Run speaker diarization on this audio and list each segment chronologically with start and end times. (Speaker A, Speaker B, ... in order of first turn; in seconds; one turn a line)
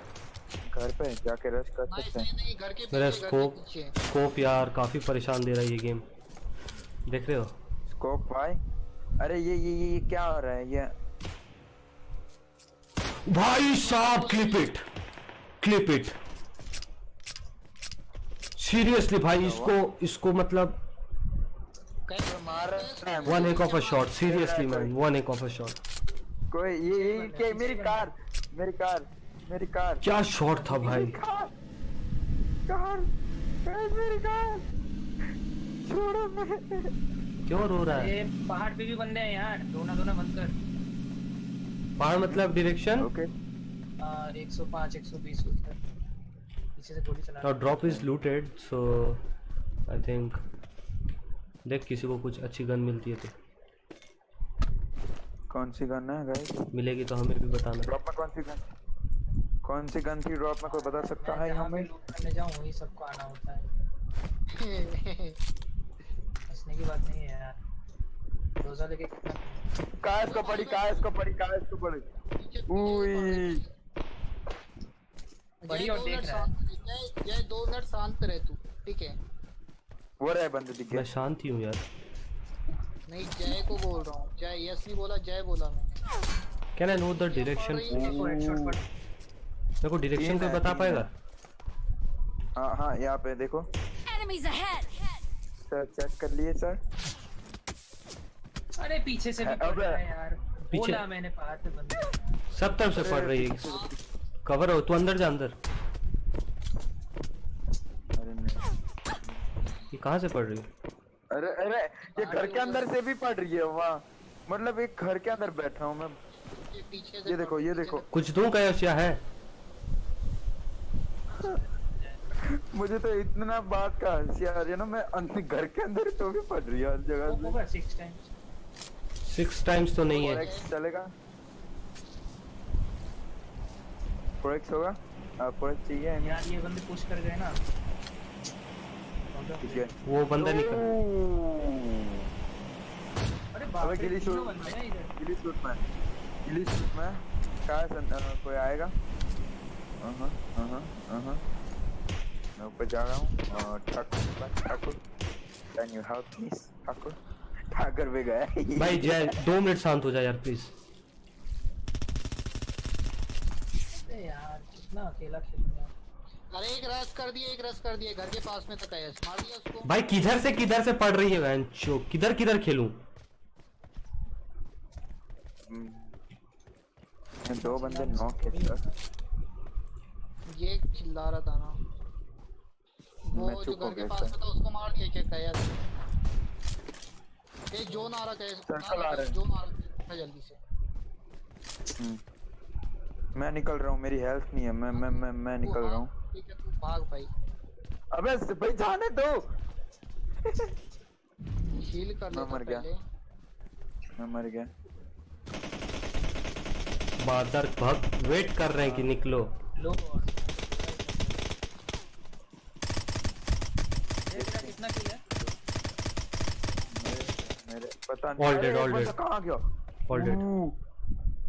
Speaker A: 0.7-2.2
Speaker B: 1.9-3.9
Speaker C: 2.9-3.5
Speaker C: 4.1-6.0
Speaker C: 7.1-7.5
Speaker A: 7.9-8.6
Speaker A: 9.2-10.9
Speaker C: 13.3-14.8
Speaker B: 13.6-14.7
Speaker C: 15.6-16.1
Speaker C: 18.6-20.8
Speaker A: 19.3-19.8
Speaker B: 22.1-24.1
Speaker A: 22.4-23.7
Speaker C: 23.2-25.8
Speaker A: 24.2-24.9
Speaker A: 26.5-30.0
Speaker D: 26.9-28.1
Speaker C: 30.0-31.2
Speaker A: 30.6-31.5
Speaker A: 32.7-33.1
Speaker A: 33.6-34.6
Speaker A: 35.8-36.9
Speaker C: 37.5-38.1
Speaker D: 37.9-40.5
Speaker C: 42.0-43.1
Speaker A: 43.0-43.3
Speaker D: 44.0-45.8
Speaker D: 46.8-47.8
Speaker C: 47.4-49.2
Speaker A: 47.8-48.1
Speaker C: 49.9-50.4
Speaker C: 51.6-53.3
Speaker A: 55.5-56.5
Speaker C: 56.7-57.9
Speaker A: 57.9-58.6
Speaker A: 59.6-61.9
Speaker D: 60.6-63.6
Speaker B: 64.5-65.3
Speaker D: 66.5-67.6
Speaker D: 68.6-69.6
Speaker A: 70.0-72.0
Speaker B: 70.2-71.1
Speaker B: 72.3-73.7
Speaker A: 72.7-73.6
Speaker D: 75.6-76.5
Speaker B: 75.7-79.2
Speaker A: 80.2-81.1
Speaker C: 80.9-81.8
Speaker B: 83.1-86.0
Speaker C: 86.8-88.0
Speaker B: 87.1-88.4
Speaker A: 87.9-88.8
Speaker D: 87.9-88.8
Speaker C: 89.8-91.1
Speaker A: 90.1-91.1
Speaker A: 92.5-93.6
Speaker A: 95.7-96.8
Speaker D: 98.8-102.5
Speaker A: 99.4-100.0
Speaker C: 100.7-101.0
Speaker C: 102.5-103.7
Speaker A: 102.9-104.0
Speaker B: 103.7-103.9
Speaker C: 104.4-105.5
Speaker A: 108.2-108.6
Speaker C: 109.9-110.7
Speaker A: 111.3-116.2
Speaker D: 112.1-112.9
Speaker B: 116.4-118.1
Speaker A: 117.2-118.0
Speaker C: 118.1-119.2
Speaker D: 121.3-122.2
Speaker A: 122.4-127.5
Speaker D: 127.3-128.3
Speaker C: 129.2-130.5
Speaker B: 130.1-130.7
Speaker A: 130.1-131.1
Speaker A: 134.4-136.4
Speaker D: 136.2-137.6
Speaker D: 139.3-140.0
Speaker A: 139.6-142.2
Speaker C: 140.1-140.9
Speaker D: 143.5-145.1
Speaker A: 143.8-145.8
Speaker A: 146.4-148.9
Speaker A: 150.0-151.4
Speaker A: 152.6-155.0
Speaker A: 155.8-157.2
Speaker A: 157.7-159.3
Speaker C: 158.8-160.7
Speaker D: 163.9-165.9
Speaker B: 166.5-169.9
Speaker C: 169.8-173.0
Speaker A: 175.7-176.1
Speaker A: 177.4-178.8
Speaker D: 177.6-179.0
Speaker B: 180.5-181.8
Speaker B: 183.3-185.8
Speaker A: 183.3-184.3
Speaker B: 187.7-190.6
Speaker D: 187.9-188.2
Speaker A: 188.7-189.3
Speaker A: 193.3-196.1
Speaker B: 194.9-197.3
Speaker A: 198.1-199.3
Speaker B: 201.7-203.0
Speaker A: 202.3-202.8
Speaker A: 204.2-204.7
Speaker C: 207.2-209.5
Speaker A: 208.8-209.2
Speaker D: 209.7-211.5
Speaker D: 214.3-215.2
Speaker A: 214.3-215.5
Speaker A: 216.9-220.8
Speaker C: 218.4-219.1
Speaker C: 220.1-220.4